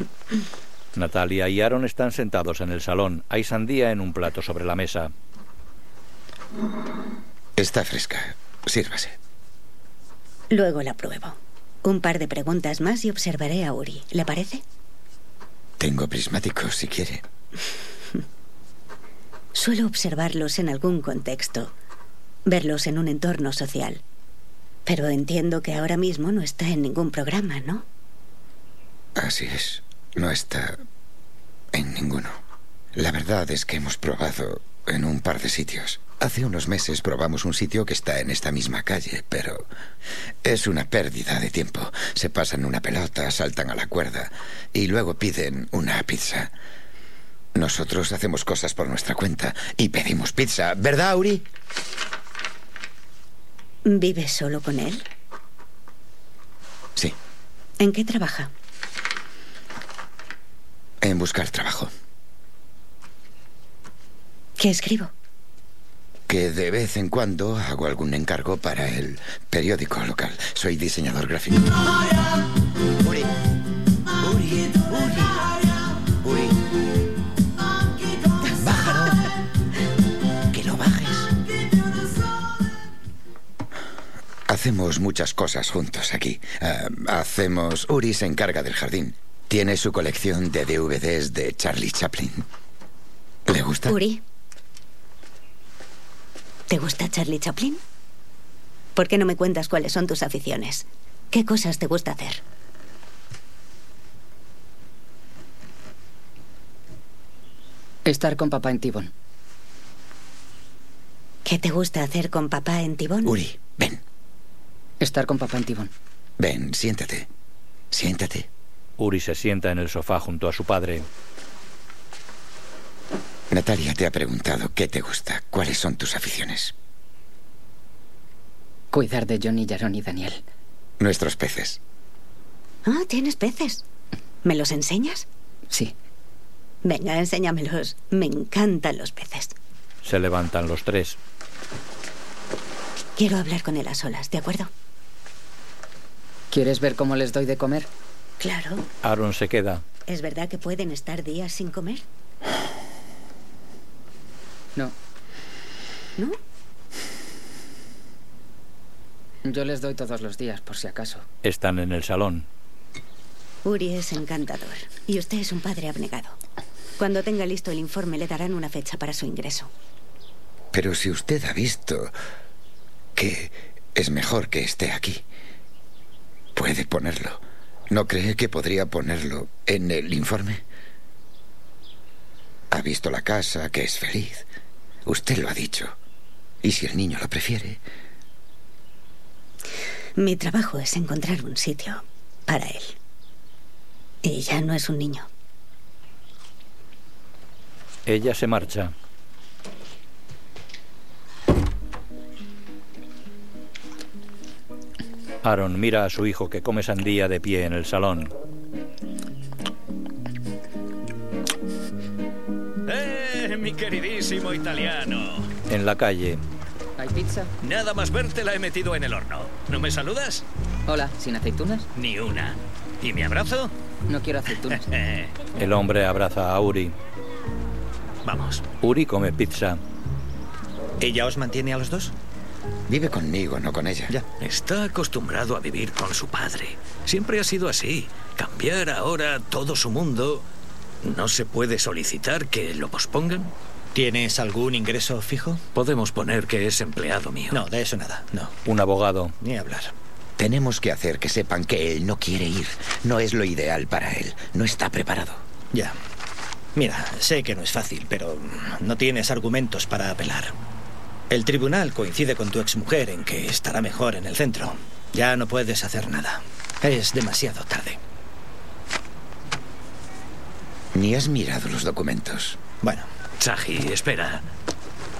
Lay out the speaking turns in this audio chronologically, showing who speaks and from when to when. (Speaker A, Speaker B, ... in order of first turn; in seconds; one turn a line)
Speaker A: 0.9-5.1
Speaker B: 7.5-9.2
Speaker C: 10.5-14.6
Speaker B: 15.8-17.2
Speaker C: 19.5-21.7
Speaker C: 22.5-24.0
Speaker C: 24.9-27.8
Speaker B: 29.1-30.8
Speaker B: 31.7-32.4
Speaker B: 32.9-39.7
Speaker B: 40.4-46.5
Speaker B: 47.5-51.5
Speaker C: 53.9-55.0
Speaker C: 57.8-58.5
Speaker B: 61.0-61.9
Speaker C: 64.6-65.1
Speaker B: 66.3-71.9
Speaker B: 73.0-73.4
Speaker B: 74.2-76.7
Speaker B: 78.5-79.3
Speaker B: 80.5-81.4
Speaker B: 84.5-92.4
Speaker B: 93.5-94.0
Speaker C: 93.9-94.2
Speaker C: 96.7-97.8
Speaker C: 99.0-102.4
Speaker D: 108.0-109.1
Speaker C: 111.4-113.3
Speaker B: 113.2-114.0
Speaker D: 115.0-115.9
Speaker B: 116.4-117.3
Speaker B: 117.9-118.5
Speaker A: 119.0-121.1
Speaker B: 123.5-126.7
Speaker D: 128.9-130.4
Speaker B: 131.0-131.8
Speaker C: 132.8-133.8
Speaker C: 134.4-135.2
Speaker C: 136.8-139.5
Speaker A: 140.0-141.2
Speaker C: 143.2-144.7
Speaker D: 146.5-147.9
Speaker C: 148.4-148.8
Speaker A: 149.0-149.8
Speaker C: 150.1-152.0
Speaker D: 159.4-161.2
Speaker A: 161.4-162.5
Speaker C: 163.6-166.3
Speaker C: 167.0-169.7
Speaker B: 170.7-172.1
Speaker B: 173.2-175.2
Speaker B: 176.5-180.6
Speaker B: 182.7-184.4
Speaker B: 185.1-185.9
Speaker B: 186.6-187.8
Speaker C: 190.2-192.9
Speaker C: 194.2-195.2
Speaker A: 198.1-198.9
Speaker A: 205.4-208.3
Speaker E: 212.9-215.5
Speaker A: 215.7-216.4
Speaker D: 217.0-217.5
Speaker E: 217.6-220.4
Speaker D: 220.9-221.9
Speaker E: 221.9-223.7
Speaker D: 224.1-224.8
Speaker E: 224.8-225.3
Speaker A: 225.6-226.9
Speaker E: 228.2-228.6
Speaker A: 228.8-229.8
Speaker F: 231.0-232.1
Speaker B: 232.9-234.1
Speaker E: 234.4-240.4
Speaker E: 241.0-243.5
Speaker F: 243.9-245.6
Speaker E: 245.7-247.6
Speaker F: 247.5-248.5
Speaker A: 248.6-249.3
Speaker F: 249.4-249.9
Speaker B: 250.4-255.4
Speaker F: 256.8-260.5
Speaker F: 261.3-268.0
Speaker B: 270.9-272.6
Speaker E: 273.4-274.5